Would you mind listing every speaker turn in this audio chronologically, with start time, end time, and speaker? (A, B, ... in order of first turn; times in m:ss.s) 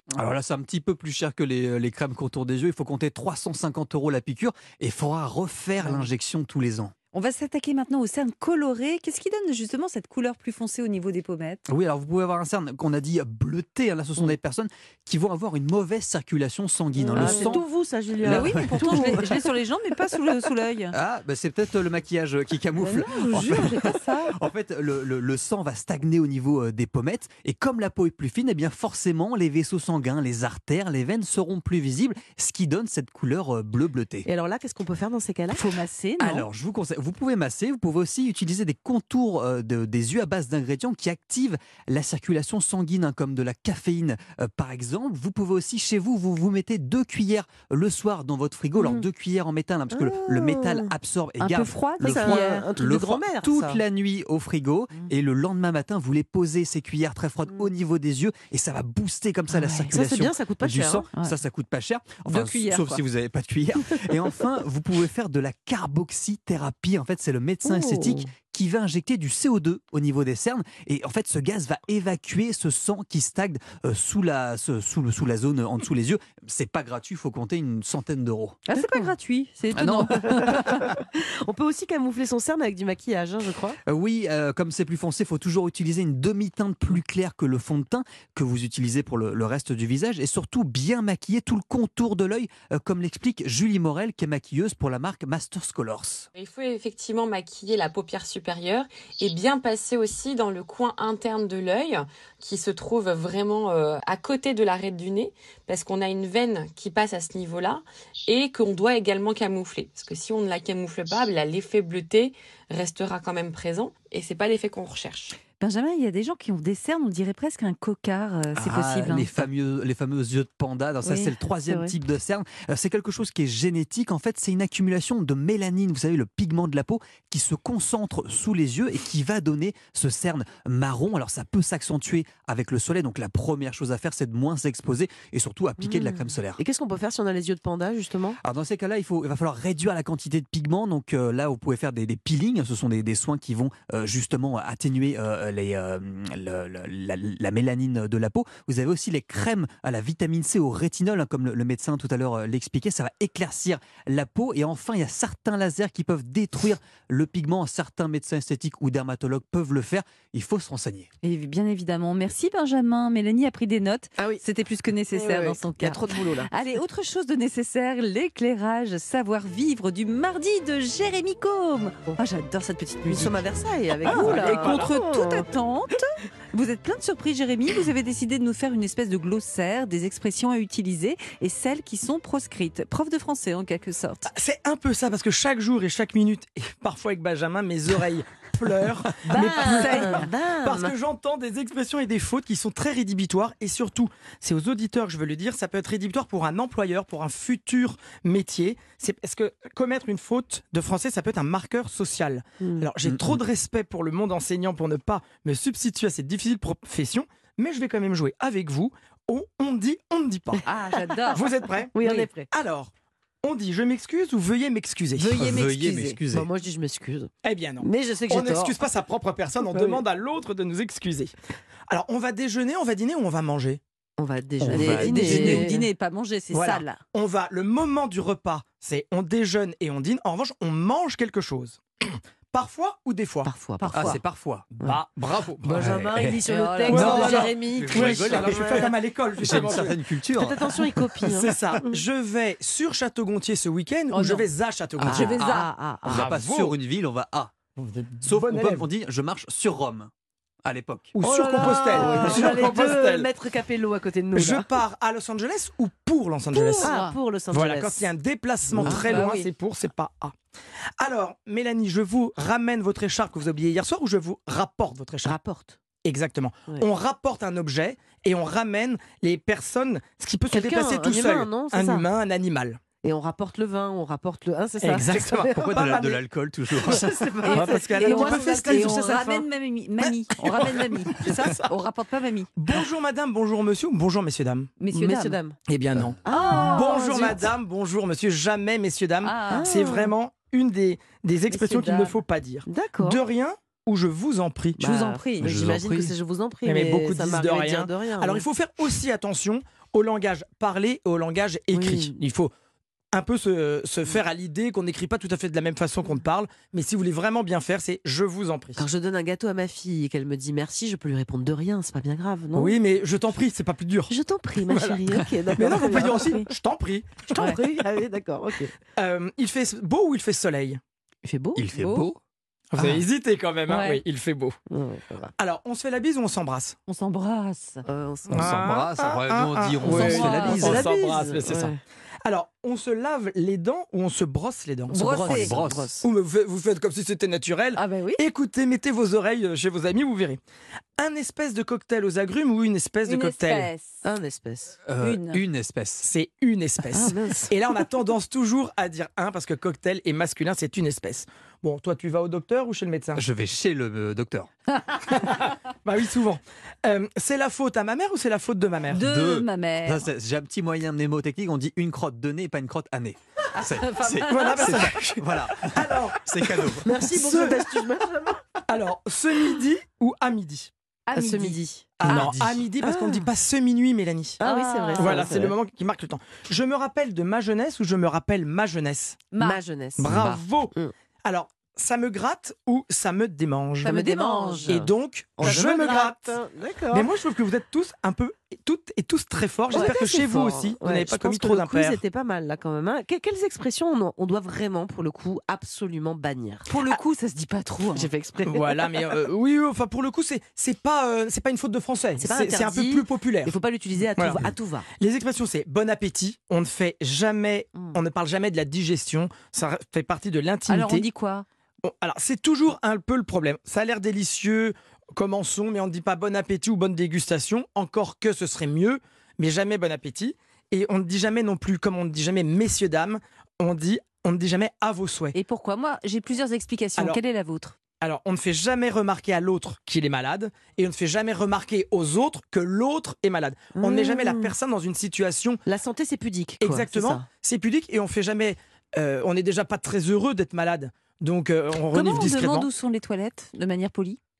0:00.2-0:06.9 A
0:07.1-0:11.6 B
0:11.7-0:17.6 A
0:17.1-0:17.6 B
0:17.2-0:19.3 C
0:18.2-0:19.2 A
0:18.3-0:21.0 B
0:20.9-0:34.3 A
0:22.8-0:24.4 B
0:34.2-0:35.6 C
0:35.5-0:36.5 B
0:36.2-1:18.6 A
0:49.9-0:50.9 C
0:51.4-0:52.7 B
0:52.0-0:53.8 C
0:59.5-1:00.0 B
0:59.9-1:01.1 C
1:02.2-1:03.0 B
1:07.6-1:08.3 C
1:18.7-1:20.9 B
1:18.8-1:19.1 C
1:19.7-1:20.8 A
1:20.3-1:23.8 C
1:23.9-1:36.3 A
1:36.4-1:55.4 D
1:55.6-1:59.5 B
1:58.6-2:16.6 A
2:01.0-2:01.4 B
2:01.7-2:01.9 C
2:15.8-2:18.4 C
2:18.4-2:41.1 A
2:41.2-2:53.4 B
2:44.2-2:44.4 C
2:45.1-2:46.5 C
2:53.0-2:55.5 C
2:54.0-3:04.3 B
2:54.0-2:55.0 E
3:04.3-3:30.7 E
3:09.2-3:10.9 C
3:09.3-3:10.3 B
3:22.6-3:22.9 C
3:23.0-3:23.4 A
3:30.7-3:31.5 B
3:31.3-3:32.9 E
3:31.9-3:32.5 C
3:33.4-3:35.4 E
3:35.2-3:36.2 B
3:35.4-3:36.5 A
3:36.3-3:38.8 C
3:37.4-3:41.3 E
3:39.7-3:40.0 C
3:41.9-3:43.8 E
3:44.2-3:45.9 C
3:44.6-3:45.7 A
3:44.6-3:47.0 B
3:46.5-3:53.5 E
3:53.4-3:54.2 C
3:53.8-3:54.7 A
3:54.8-3:55.9 E
3:55.6-3:58.9 C
3:55.7-4:01.0 A
3:56.4-3:58.3 B
3:56.9-4:00.0 E
4:00.4-4:02.0 C
4:01.3-4:05.4 E
4:04.1-4:04.5 B
4:05.0-4:06.3 C
4:05.1-4:05.7 B
4:06.0-4:07.5 A
4:06.1-4:06.8 E
4:07.8-4:08.9 E
4:08.2-4:10.1 A
4:10.6-4:11.1 A
4:11.1-4:13.3 E
4:11.2-4:14.7 C
4:14.3-4:17.0 E
4:16.5-4:18.1 C
4:16.6-4:17.2 B
4:17.5-4:20.3 E
4:18.8-4:19.2 C
4:18.9-4:19.5 B
4:21.0-4:25.4 E
4:25.2-4:25.8 C
4:26.0-4:32.8 E
4:30.5-4:32.1 C
4:33.0-4:36.0 C
4:34.8-4:36.2 E
4:35.6-4:37.4 A
4:36.8-4:39.5 C
4:37.4-4:42.5 B
4:37.5-4:39.2 E
4:40.0-4:41.7 E
4:42.6-4:44.7 E
4:44.8-4:45.4 B
4:44.9-4:45.6 C
4:45.7-4:54.8 E
4:46.2-4:47.5 C
4:46.4-4:46.8 B
4:49.2-4:49.8 B
4:49.5-4:50.1 C
4:51.5-4:52.2 B
4:52.7-4:53.2 C
4:54.8-4:55.6 B
4:54.8-4:58.5 C
4:55.4-4:56.1 A
4:56.6-5:02.5 E
5:01.7-5:02.1 C
5:03.1-5:08.8 E
5:08.8-5:12.8 C
5:12.5-5:14.1 E
5:14.1-5:16.4 C
5:14.7-5:17.3 E
5:17.3-5:18.8 C
5:19.0-5:20.8 E
5:21.2-5:21.7 C
5:21.6-5:22.2 A
5:21.8-5:22.1 B
5:22.7-5:24.6 E
5:22.8-5:23.0 A
5:23.7-5:24.0 B
5:24.7-5:25.3 C
5:25.4-5:26.8 E
5:26.9-5:27.8 B
5:27.9-5:28.6 C
5:28.3-5:40.4 E
5:28.4-5:30.9 A
5:29.8-5:31.8 C
5:29.9-5:30.8 B
5:34.9-5:35.5 B
5:34.9-5:36.1 C
5:35.2-5:35.9 A
5:37.8-5:38.2 B
5:41.0-5:43.7 E
5:43.0-5:44.0 B
5:44.0-5:44.8 C
5:44.9-5:46.1 A
5:45.0-5:45.4 B
5:46.0-5:53.2 E
5:46.9-5:47.6 C
5:53.2-5:54.5 A
5:54.8-5:55.5 B
5:55.1-5:59.1 E
5:58.9-6:00.1 B
5:59.0-6:07.1 A
6:03.6-6:05.0 B
6:04.2-6:07.5 E
6:06.8-6:08.4 C
6:08.7-6:10.7 E
6:11.1-6:11.6 B
6:11.1-6:12.2 C
6:12.0-6:12.6 A
6:12.0-6:14.4 E
6:12.8-6:13.2 C
6:14.4-6:15.3 B
6:14.4-6:15.5 C
6:15.0-6:19.3 E
6:19.3-6:19.6 B
6:19.4-6:20.1 C
6:20.0-6:23.9 E
6:20.1-6:20.4 A
6:23.8-6:24.8 B
6:23.8-6:27.1 C
6:24.7-6:26.4 E
6:26.9-6:32.0 E
6:29.7-6:37.0 C
6:29.7-6:30.1 B
6:36.7-6:38.1 B
6:38.0-6:39.1 C
6:38.5-6:43.6 E
6:42.2-6:44.9 C
6:44.2-6:44.4 E
6:45.0-6:51.1 E
6:50.7-6:51.5 B
6:51.8-7:05.4 E
7:05.3-7:07.8 B
7:08.0-7:15.6 E
7:13.8-7:14.5 C
7:15.7-7:17.2 C
7:16.6-7:22.7 E
7:21.9-7:24.2 B